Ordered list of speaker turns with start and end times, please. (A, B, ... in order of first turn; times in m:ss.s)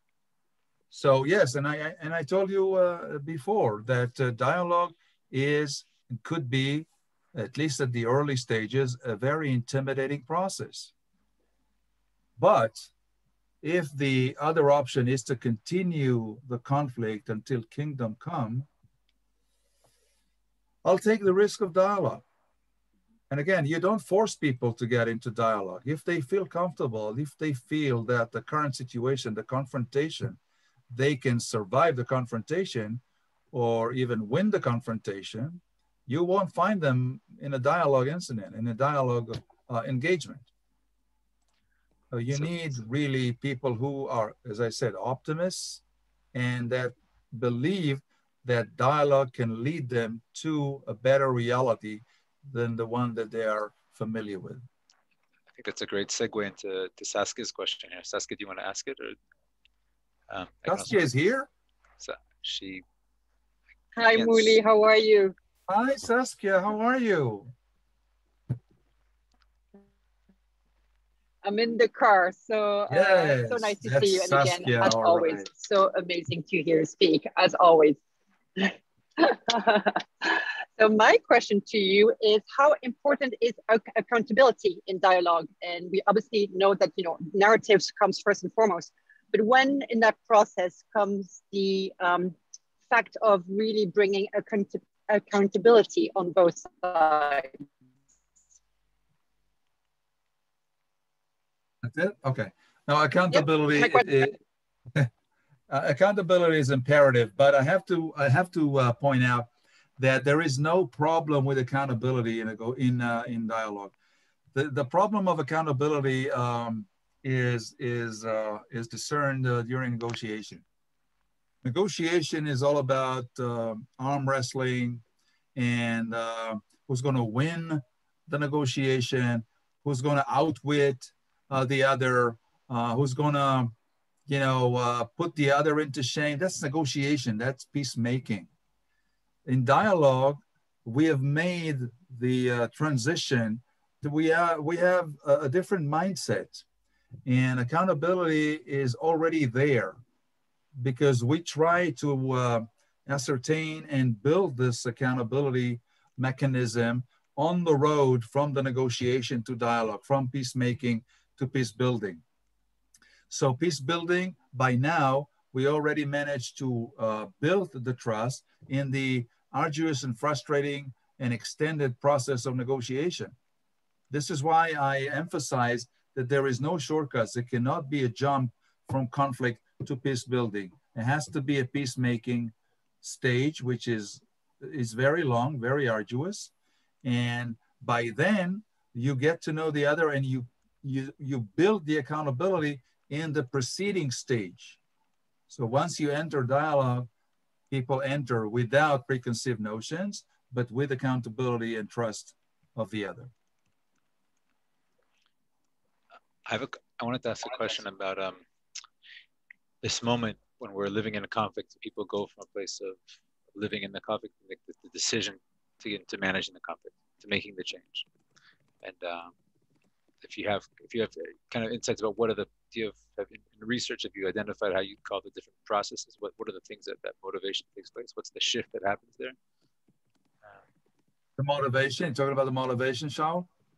0:00.9-0:10.9 A
0:12.4-0:12.9 A
0:13.6-0:18.7 A
0:20.8-0:22.2 A
0:23.3-0:30.4 A
0:30.9-0:40.5 A
0:42.1-0:45.8 A
0:46.3-0:54.7 A
0:55.5-0:59.2 B
1:00.3-1:01.0 B
1:00.7-1:01.5 A
1:02.0-1:02.8 B
1:04.0-1:05.4 C
1:04.1-1:04.6 B
1:05.7-1:07.5 A
1:11.4-1:18.0 C
1:12.9-1:15.5 A
1:18.6-1:32.4 C
1:32.9-1:37.6 C
1:41.8-1:44.4 A
1:43.3-1:44.3 C
1:45.7-1:53.9 A
1:54.5-2:00.6 A
2:01.6-2:05.0 A
2:05.6-2:13.8 A
2:14.3-2:18.5 A
2:19.5-2:26.6 A
2:27.3-2:30.0 A
2:30.8-2:42.2 A
2:43.3-2:53.4 A
2:54.1-3:06.5 A
3:07.0-3:14.8 A
3:15.5-3:17.1 A
3:17.7-3:23.3 A
3:26.5-3:28.4 B
3:29.8-3:33.0 B
3:33.6-3:38.1 B
3:38.8-3:39.3 B
3:40.2-3:49.4 B
3:51.4-3:53.5 A